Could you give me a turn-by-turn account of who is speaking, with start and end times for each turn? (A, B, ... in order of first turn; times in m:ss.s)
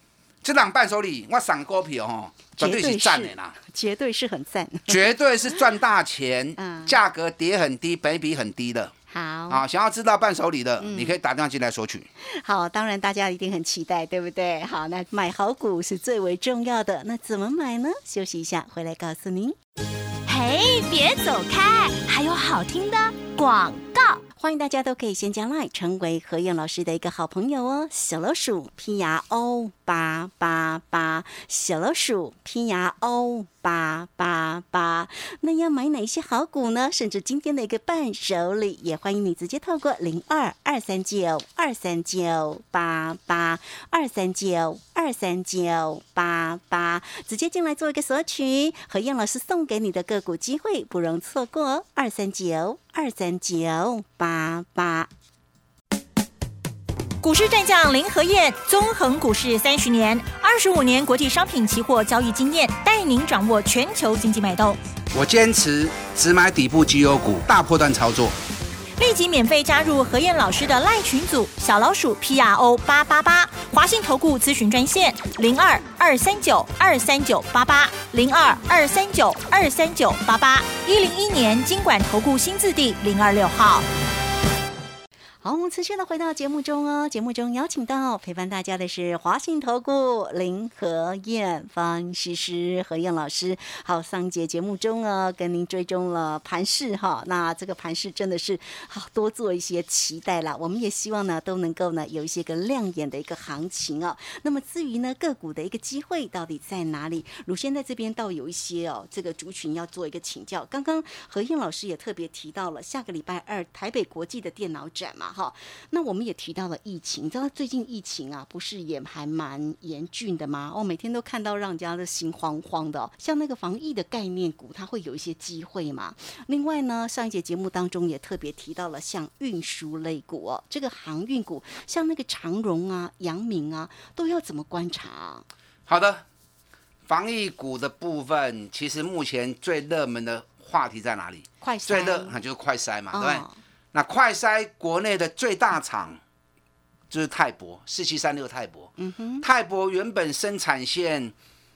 0:00.4-0:03.6 A
0:02.6-0:05.2 B
0:04.9-0:08.9 A
0:06.6-0:07.0 B
0:09.1-0:09.6 B
0:09.5-0:12.1 A
0:10.8-0:11.2 B
0:12.2-0:19.6 B
0:20.3-0:55.1 B
0:57.2-1:04.8 C
1:05.1-1:08.3 A
1:09.0-1:23.9 C
1:25.4-2:15.5 B
2:15.9-2:16.2 A
2:17.1-2:26.2 A
2:21.6-2:22.4 B
2:23.1-2:23.6 B
2:27.1-2:28.9 A
2:29.0-2:29.5 B
2:29.4-2:31.3 A